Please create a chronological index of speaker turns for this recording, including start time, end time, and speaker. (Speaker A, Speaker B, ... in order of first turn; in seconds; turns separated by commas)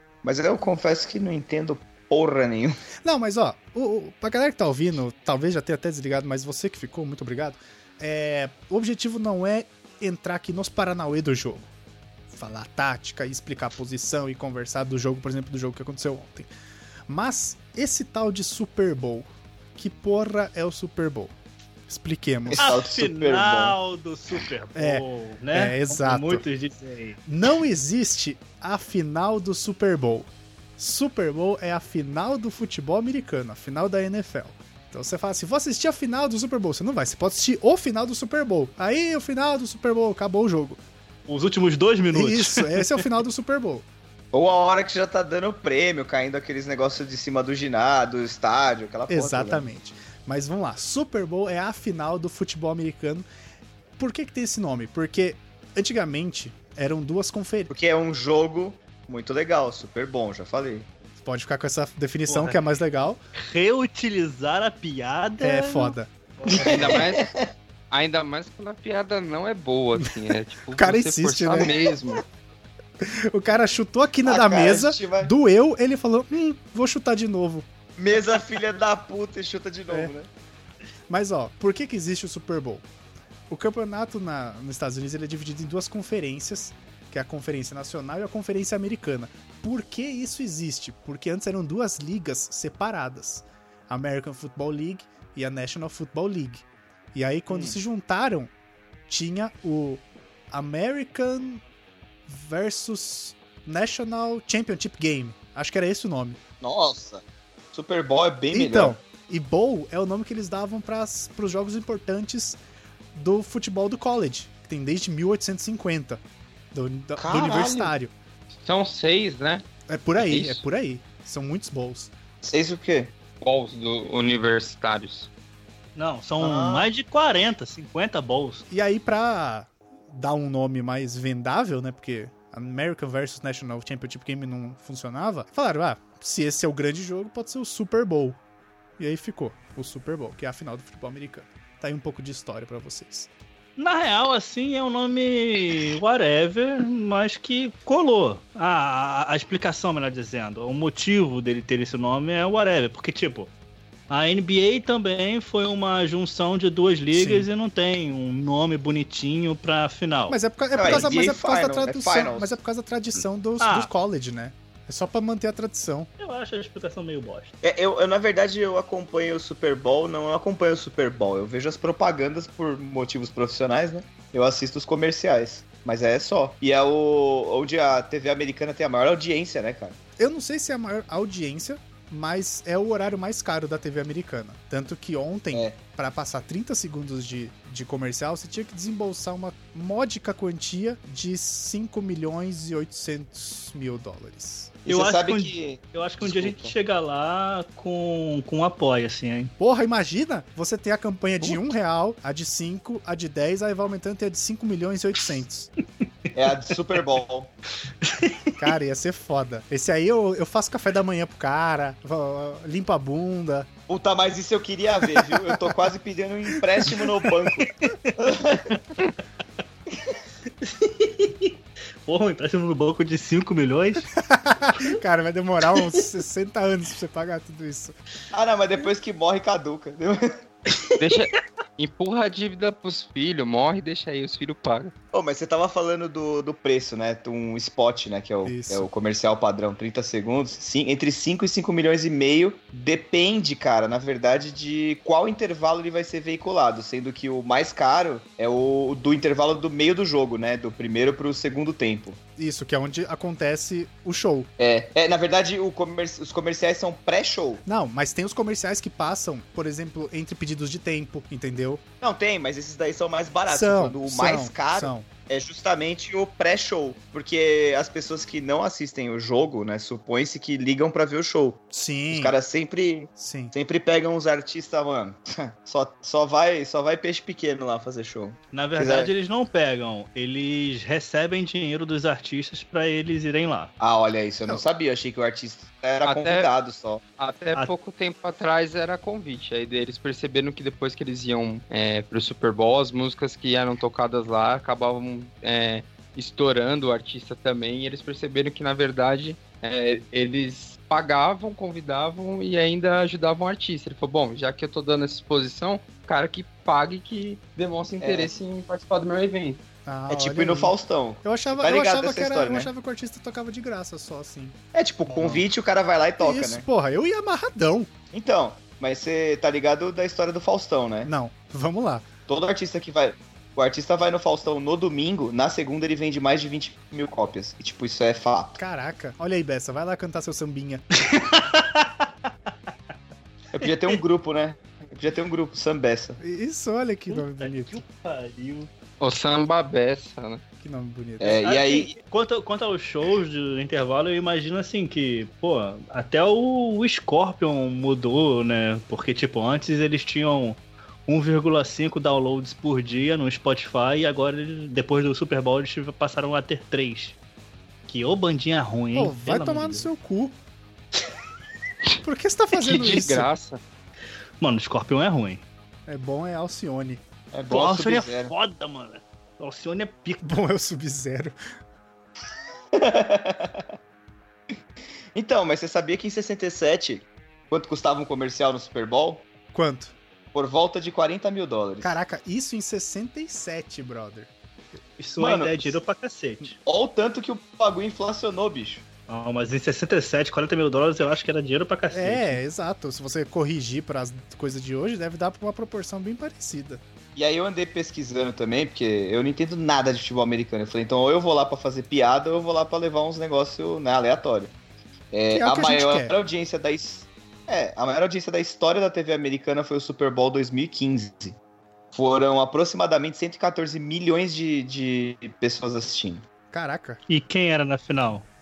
Speaker A: 0.2-2.7, Speaker B: 3.0-11.7, Speaker B: 12.3-16.5, Speaker B: 17.1-21.3, Speaker B: 21.9-22.7, Speaker A: 22.5-23.8, Speaker C: 22.6-27.2, Speaker B: 24.7-26.4, Speaker B: 27.3-40.8, Speaker C: 41.3-43.0, Speaker B: 42.1-43.8, Speaker A: 44.3-49.7, Speaker B: 49.1-53.2, Speaker B: 54.0-57.7, Speaker A: 57.7-60.9, Speaker B: 61.2-63.2, Speaker C: 62.3-62.6, Speaker C: 63.4-67.1, Speaker B: 65.4-66.1, Speaker A: 66.5-67.5, Speaker D: 66.6-67.3, Speaker D: 67.9-72.2, Speaker B: 70.7-71.7, Speaker A: 71.6-71.9, Speaker B: 73.0-77.7, Speaker A: 74.2-75.3, Speaker A: 78.0-80.3, Speaker B: 81.1-82.8, Speaker B: 83.5-98.5, Speaker A: 97.5-97.8, Speaker B: 99.1-101.6, Speaker B: 102.3-106.4, Speaker A: 106.6-107.2, Speaker A: 107.7-109.0, Speaker B: 108.5-112.6, Speaker B: 113.1-116.2, Speaker B: 116.7-118.1, Speaker A: 117.2-117.9, Speaker D: 118.6-119.6, Speaker B: 119.9-122.1, Speaker D: 120.2-120.6, Speaker A: 122.4-123.1, Speaker D: 123.4-125.3, Speaker C: 126.0-128.7, Speaker A: 126.4-126.9, Speaker B: 128.7-138.4, Speaker B: 139.0-143.3, Speaker C: 143.8-153.5, Speaker C: 154.1-161.1, Speaker B: 157.1-157.5, Speaker B: 160.3-166.1, Speaker A: 160.7-162.6, Speaker C: 163.6-163.9, Speaker C: 166.2-167.5, Speaker A: 167.6-179.9, Speaker B: 180.2-194.7, Speaker A: 194.8-196.7, Speaker C: 194.9-199.5, Speaker B: 199.6-205.7, Speaker A: 206.3-207.5, Speaker C: 208.0-208.6, Speaker B: 208.6-213.7, Speaker A: 213.9-218.8, Speaker C: 216.8-217.9, Speaker C: 220.6-224.1, Speaker B: 224.2-227.9, Speaker A: 228.3-230.2, Speaker C: 230.7-231.2, Speaker D: 231.0-234.9, Speaker A: 235.1-252.2, Speaker B: 238.4-238.9, Speaker B: 252.4-254.5, Speaker A: 254.6-257.6, Speaker B: 257.6-261.8, Speaker A: 262.0-279.1, Speaker B: 263.5-265.1, Speaker B: 271.7-272.3, Speaker B: 273.2-273.5, Speaker C: 278.5-283.7, Speaker A: 283.8-287.0, Speaker D: 286.0-286.5, Speaker D: 287.2-309.6, Speaker A: 308.0-308.3, Speaker B: 309.9-314.5, Speaker A: 310.1-312.7, Speaker A: 314.7-316.6, Speaker C: 315.1-315.4, Speaker B: 316.2-317.9, Speaker A: 318.1-321.1, Speaker B: 321.0-322.1, Speaker A: 322.3-328.6, Speaker B: 328.6-330.8, Speaker C: 331.0-332.1, Speaker A: 333.5-336.2, Speaker C: 333.6-334.0, Speaker B: 336.2-337.8, Speaker C: 337.1-338.7, Speaker D: 339.0-340.4, Speaker B: 340.6-341.4, Speaker A: 341.2-341.9, Speaker C: 341.4-357.2, Speaker C: 357.9-359.9, Speaker B: 358.9-360.3, Speaker B: 362.0-363.3, Speaker D: 362.5-363.6, Speaker C: 364.4-365.4, Speaker B: 365.9-367.0, Speaker A: 367.3-368.3, Speaker C: 367.5-370.4, Speaker B: 370.2-371.4, Speaker A: 372.7-373.7, Speaker A: 375.1-379.2, Speaker B: 379.5-379.9, Speaker A: 380.3-382.0, Speaker B: 381.8-384.3, Speaker C: 385.0-386.6, Speaker A: 385.2-385.8, Speaker A: 386.6-388.8, Speaker C: 389.1-392.4, Speaker B: 391.9-396.8, Speaker A: 397.1-404.5, Speaker A: 405.1-411.4, Speaker B: 405.3-406.1, Speaker A: 411.9-416.2, Speaker B: 416.5-417.0, Speaker C: 417.1-418.2